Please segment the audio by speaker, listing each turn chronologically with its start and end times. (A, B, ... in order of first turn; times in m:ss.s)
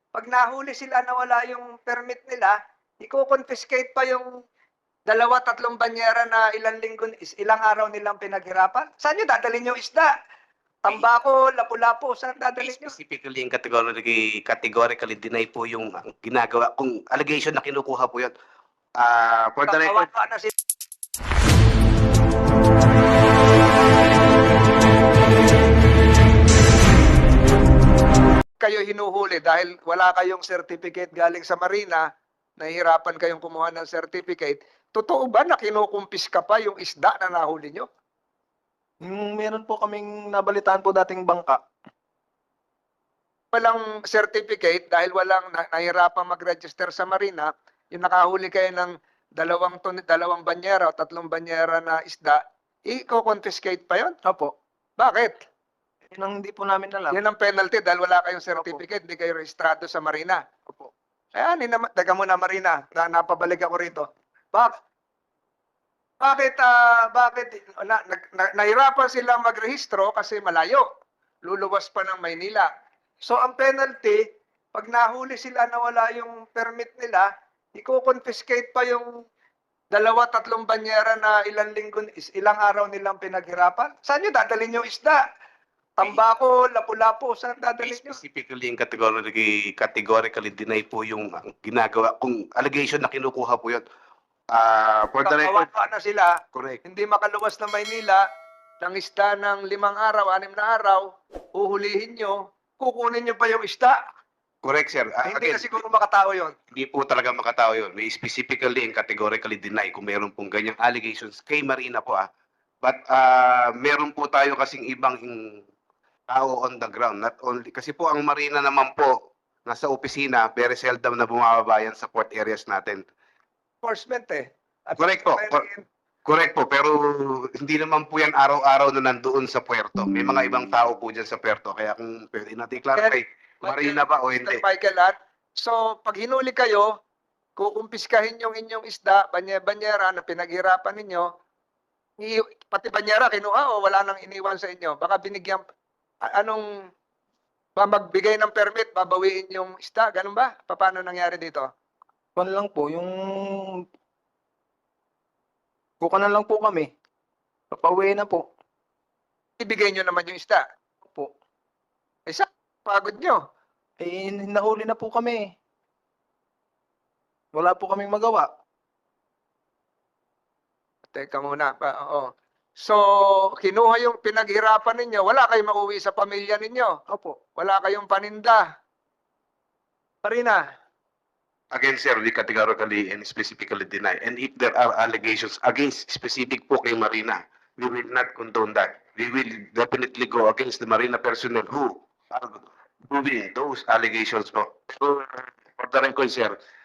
0:00.1-0:04.3 A
0:05.1-0:10.1 A
0:10.8-0:12.9 A
0:12.6-0:18.3 B
0:19.0-0:20.1 B
0:19.7-0:20.5 A
0:28.6-0:32.0 A
0:32.6-0:37.9 A
0:39.0-0:41.6 C
0:43.5-0:54.1 A
0:54.2-0:54.5 C
0:55.0-0:55.4 A
0:56.1-0:57.2 C
0:57.1-1:00.4 A
0:58.6-0:58.8 C
1:01.3-1:04.8 A
1:06.2-1:10.8 A
1:11.4-1:12.7 A
1:13.2-1:14.2 A
1:14.7-1:19.1 A
1:19.9-1:25.2 A
1:26.0-1:28.2 A
1:27.8-1:33.8 B
1:34.5-1:35.7 B
1:35.2-1:38.2 A
1:36.5-1:36.8 B
1:38.8-1:44.0 A
1:44.6-1:45.7 B
1:45.2-1:46.5 A
1:46.7-1:52.2 B
1:52.8-1:55.6 B
1:56.3-1:59.1 B
1:59.6-2:03.0 B
2:03.8-2:05.8 A
2:05.0-2:05.6 B
2:06.2-2:14.6 B
2:12.9-2:16.9 A
2:17.6-2:21.3 A
2:22.2-2:25.6 A
2:26.3-2:26.6 A
2:27.8-2:31.7 A
2:32.4-2:33.8 C
2:36.0-2:36.9 C
2:37.7-2:38.5 C
2:39.6-2:40.6 A
2:41.0-2:41.3 C
2:42.3-2:43.4 A
2:44.0-2:45.5 C
2:47.5-2:48.5 C
2:51.1-2:53.0 A
2:53.6-2:56.9 A
2:57.1-2:57.4 C
2:57.5-2:58.6 A
3:00.2-3:00.6 A
3:01.7-3:16.6 B